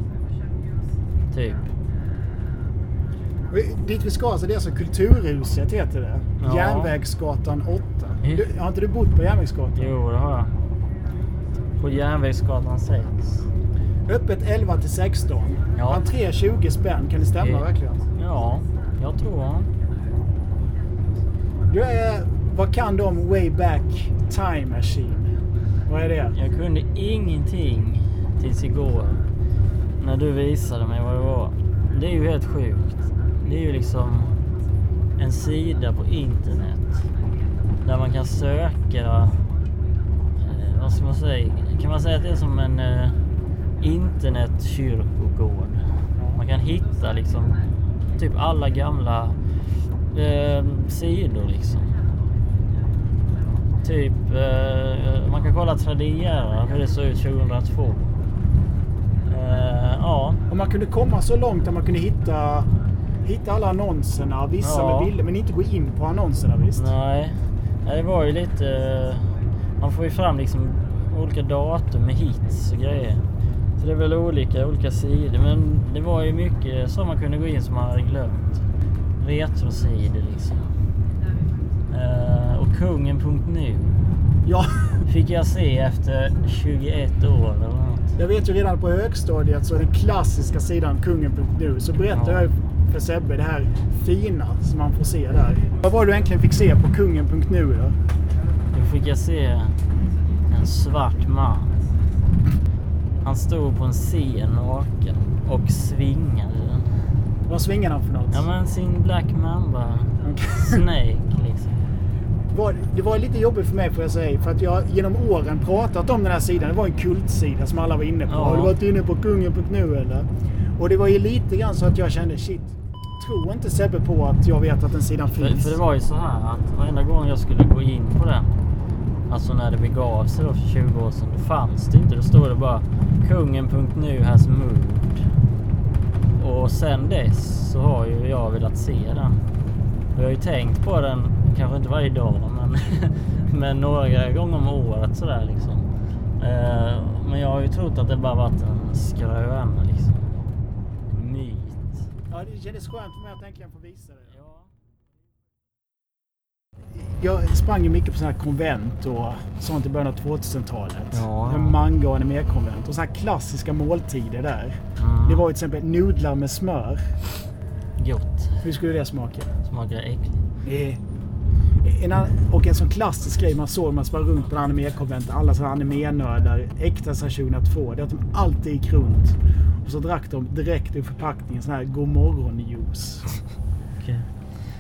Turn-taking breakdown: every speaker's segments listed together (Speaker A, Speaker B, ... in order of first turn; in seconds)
Speaker A: 1.3-1.7, 6.4-6.9, 9.8-10.5, 11.8-13.4, 15.8-16.0, 17.4-19.7, 26.3-29.2, 30.0-34.4, 35.2-37.1, 37.8-39.4, 40.4-43.2, 43.8-47.6, 48.2-49.4, 50.1-52.0, 53.8-58.1, 59.3-60.4, 64.6-65.1, 66.8-73.2, 73.8-78.6, 79.2-80.7, 81.9-84.1, 85.1-88.1, 92.1-92.5, 98.7-99.8, 100.5-101.8, 103.2-107.0, 108.3-111.8, 118.3-118.8, 125.3-128.5, 129.3-135.2, 136.4-139.5, 140.1-145.9, 146.4-150.2, 151.1-152.0, 154.3-154.7, 161.1-161.8, 165.0-165.4, 168.0-168.6, 169.7-170.4, 184.0-184.3
Speaker B: 3.5-9.9, 14.1-18.0, 21.7-25.4, 25.9-26.4, 60.5-62.7, 63.2-66.9, 84.4-85.0, 88.2-98.0, 107.5-108.4, 110.2-110.8, 112.5-125.8, 152.3-154.3, 157.0-167.1, 168.6-169.5, 170.6-171.0, 171.8-183.3